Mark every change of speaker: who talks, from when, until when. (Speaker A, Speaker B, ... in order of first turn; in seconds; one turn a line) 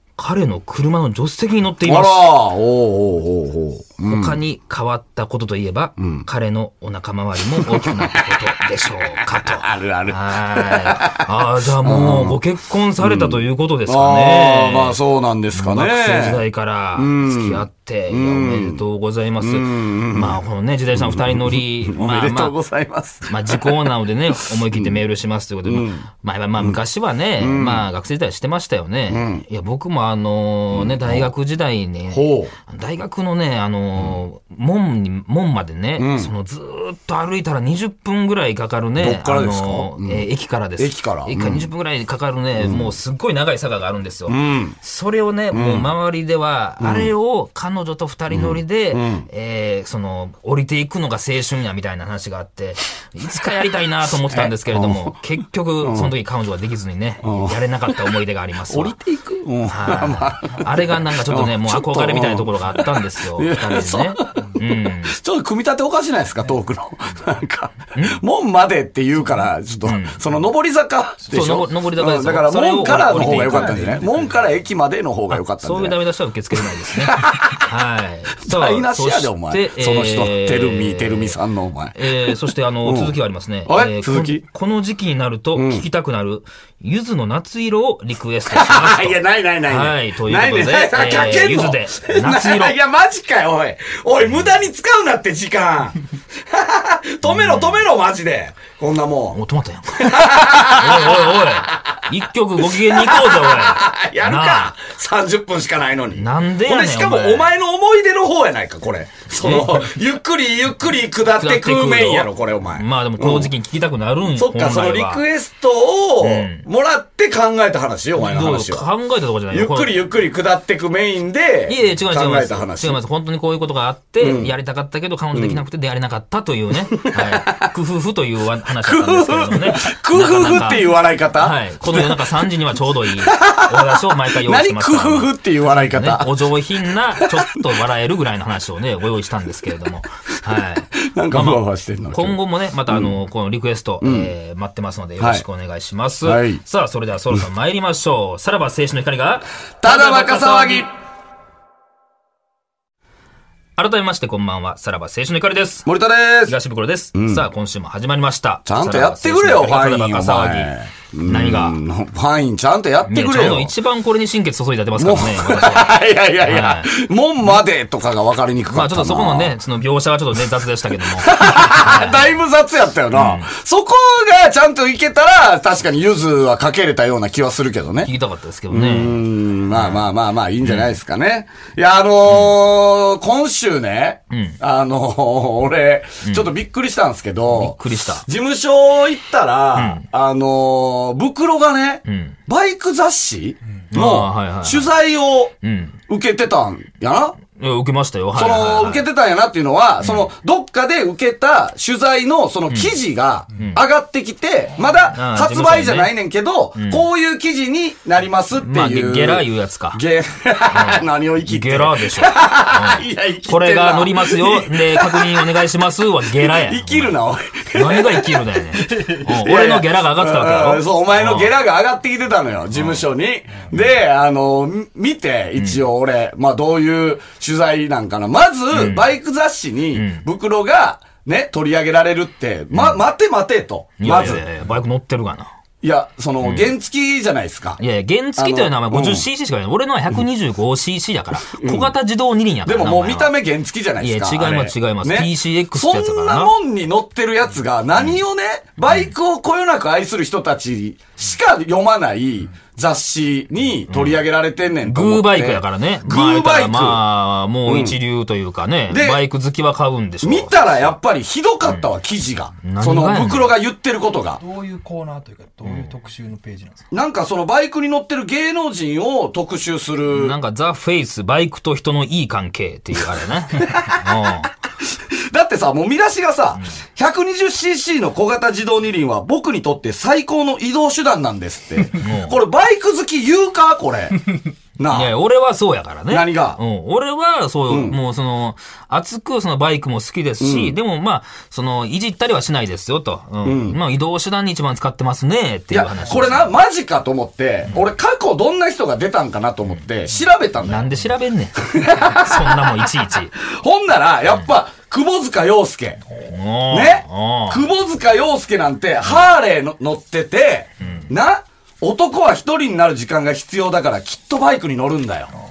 Speaker A: 0.2-2.3
Speaker B: 1.8-4.4
Speaker A: 4.0-15.0
Speaker B: 6.0-6.2
Speaker B: 7.5-8.4
Speaker B: 9.2-11.3
Speaker B: 11.8-12.4
Speaker B: 13.0-16.4
Speaker A: 15.5-22.5
Speaker B: 16.9-18.8
Speaker B: 19.4-20.4
Speaker B: 20.9-23.9
Speaker A: 23.3-59.0
Speaker B: 24.4-25.0
Speaker B: 25.6-26.0
Speaker B: 27.4-27.9
Speaker B: 29.1-29.4
Speaker B: 30.7-31.3
Speaker B: 32.1-32.5
Speaker B: 36.0-36.3
Speaker B: 39.0-40.2
Speaker B: 40.8-41.7
Speaker B: 42.6-43.0
Speaker B: 44.3-44.8
Speaker B: 45.5-45.9
Speaker B: 46.8-47.1
Speaker B: 48.3-49.3
Speaker B: 54.3-55.2
Speaker B: 55.8-56.1
Speaker B: 57.2-58.0
Speaker B: 58.7-76.0
Speaker A: 59.6-65.2
Speaker A: 67.9-68.2
Speaker A: 69.8-70.2
Speaker A: 71.3-74.0
Speaker C: 73.1-74.3
Speaker A: 75.3-81.4
Speaker B: 76.5-77.7
Speaker B: 78.4-82.3
Speaker A: 81.9-92.7
Speaker B: 82.8-84.4
Speaker B: 85.5-85.8
Speaker B: 88.5-99.4
Speaker A: 97.2-97.8
Speaker A: 99.3-104.7
Speaker B: 100.0-113.5
Speaker A: 106.1-107.5
Speaker A: 109.3-109.9
Speaker A: 111.3-115.2
Speaker B: 114.3-118.8
Speaker A: 116.2-116.7
Speaker A: 118.2-120.0
Speaker B: 119.5-123.0
Speaker A: 121.7-150.9
Speaker B: 124.2-124.5
Speaker B: 125.3-125.6
Speaker B: 126.9-127.7
Speaker B: 128.8-132.2
Speaker B: 133.2-133.8
Speaker B: 134.3-136.4
Speaker B: 137.2-137.6
Speaker B: 141.0-143.1
Speaker B: 144.0-144.3
Speaker B: 145.2-145.4
Speaker B: 146.2-146.6
Speaker B: 149.8-150.9
Speaker A: 153.8-155.9
Speaker B: 155.8-156.6
Speaker A: 156.4-161.8
Speaker B: 157.1-157.5
Speaker B: 158.7-163.7
Speaker A: 163.1-166.9
Speaker B: 165.0-169.5
Speaker A: 168.7-172.3
Speaker B: 171.1-178.1
Speaker A: 173.1-173.5
Speaker A: 178.0-180.0
Speaker B: 178.7-195.5
Speaker A: 180.6-180.9
Speaker A: 184.3-184.6
Speaker A: 186.2-186.5
Speaker A: 187.5-188.2
Speaker A: 189.8-190.0
Speaker A: 192.1-192.3
Speaker A: 193.9-194.9
Speaker A: 195.6-196.0
Speaker B: 196.1-197.4
Speaker A: 197.6-199.0
Speaker B: 198.3-215.6
Speaker A: 200.0-200.3
Speaker A: 203.5-203.8
Speaker A: 205.1-206.1
Speaker A: 206.8-207.1
Speaker A: 208.6-210.0
Speaker A: 210.7-217.1
Speaker B: 216.4-234.4
Speaker A: 217.7-221.5
Speaker A: 225.6-225.8
Speaker A: 228.7-229.1
Speaker A: 229.9-230.2
Speaker A: 232.7-233.0
Speaker A: 234.0-235.5
Speaker B: 235.8-237.8
Speaker A: 236.4-236.7
Speaker A: 237.8-243.3
Speaker B: 238.4-239.3
Speaker B: 241.5-241.9
Speaker B: 242.6-257.0
Speaker A: 244.0-246.5
Speaker A: 253.9-254.2
Speaker A: 254.8-260.9
Speaker B: 257.7-258.0
Speaker B: 258.9-259.2
Speaker B: 260.2-264.4
Speaker A: 262.6-263.5
Speaker C: 264.4-266.9
Speaker A: 265.6-265.9
Speaker B: 266.9-270.4
Speaker A: 270.1-274.5
Speaker B: 273.5-274.1
Speaker B: 274.8-285.1
Speaker A: 281.9-282.4
Speaker A: 284.9-296.5
Speaker B: 286.1-286.6
Speaker B: 287.7-288.0
Speaker B: 290.4-290.7
Speaker B: 293.4-293.8
Speaker B: 295.7-301.0
Speaker A: 300.6-303.4
Speaker B: 301.6-302.8
Speaker B: 303.4-306.0
Speaker A: 306.1-307.6
Speaker B: 306.7-315.3
Speaker A: 310.8-311.1